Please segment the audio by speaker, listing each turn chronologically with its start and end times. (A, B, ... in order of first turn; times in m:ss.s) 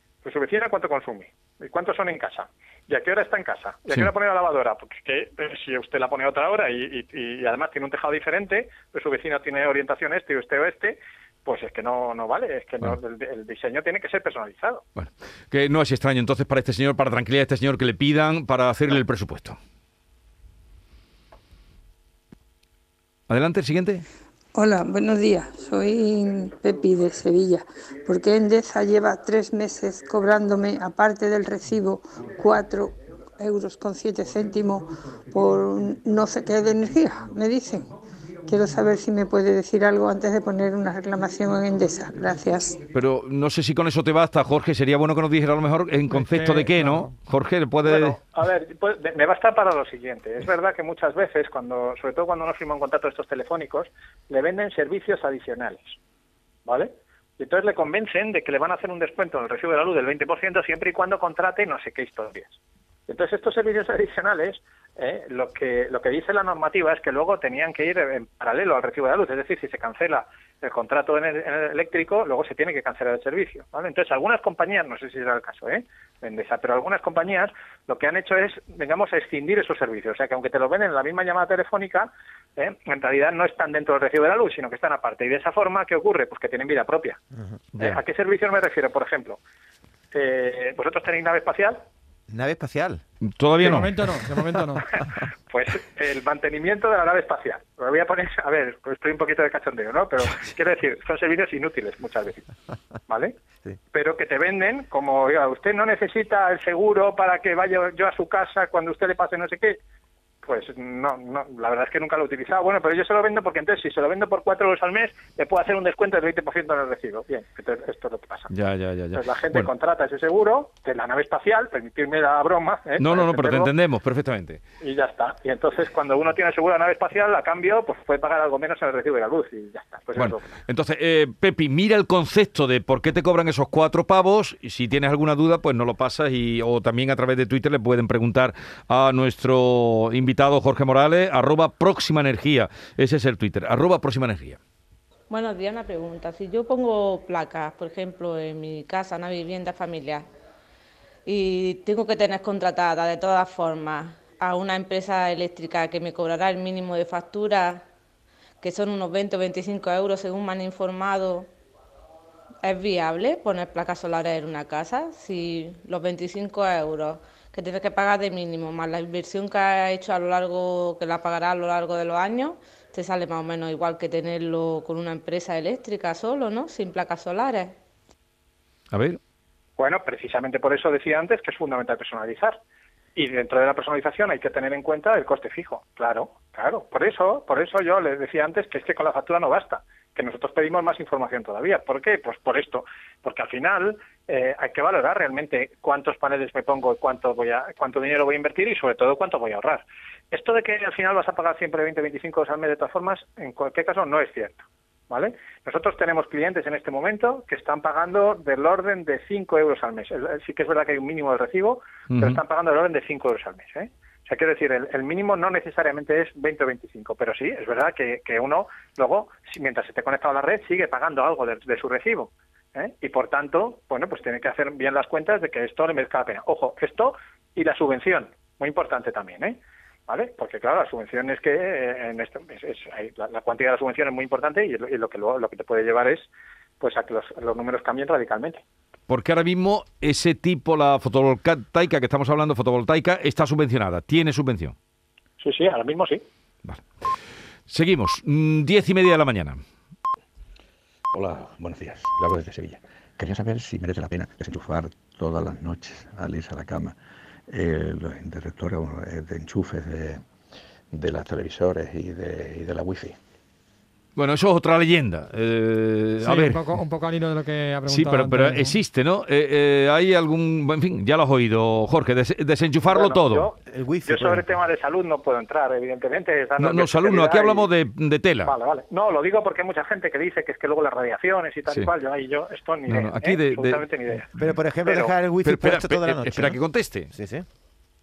0:00.2-0:14.8 A
0:15.0-0:19.6 B
0:23.3-0:24.0 B
0:24.5-0:37.9 C
0:38.5-0:42.8 C
0:42.9-0:48.2 B
0:46.1-0:47.1 D
0:47.8-0:56.0 A
0:56.7-1:27.2 A
1:27.8-1:29.4 A
1:30.1-1:31.8 A
1:32.3-1:33.0 E
1:33.3-1:34.1 B
1:33.6-1:34.9 D
1:35.5-1:42.4 A
1:43.1-1:43.3 A
1:43.9-1:49.8 A
1:50.4-1:58.5 A
1:58.5-1:59.7 B
1:59.1-2:03.7 A
2:03.0-2:04.6 B
2:04.8-2:10.5 A
2:10.2-2:24.6 B
2:25.3-2:30.2 F
2:31.3-2:37.8 F
2:38.6-2:41.4 F
2:42.7-2:57.7 F
2:58.9-2:59.2 B
2:59.8-3:02.6 A
3:03.2-3:56.3 A
3:32.1-3:32.4 B
3:56.8-3:58.6 A
3:59.1-4:04.7 B
4:05.4-4:06.2 A
4:06.6-4:07.1 B
4:07.7-4:09.6 B
4:11.1-4:17.0 G
4:17.5-4:20.2 G
4:20.9-4:23.2 G
4:24.2-4:26.7 B
4:26.2-4:28.8 D
4:27.9-4:33.5 B
4:32.9-4:37.7 A
4:33.7-4:34.4 E
4:36.6-4:38.5 B
4:38.4-4:44.3 A
4:42.9-4:43.8 B
4:44.4-4:46.6 E
4:44.8-4:45.1 A
4:45.4-4:47.1 B
4:47.1-4:47.4 E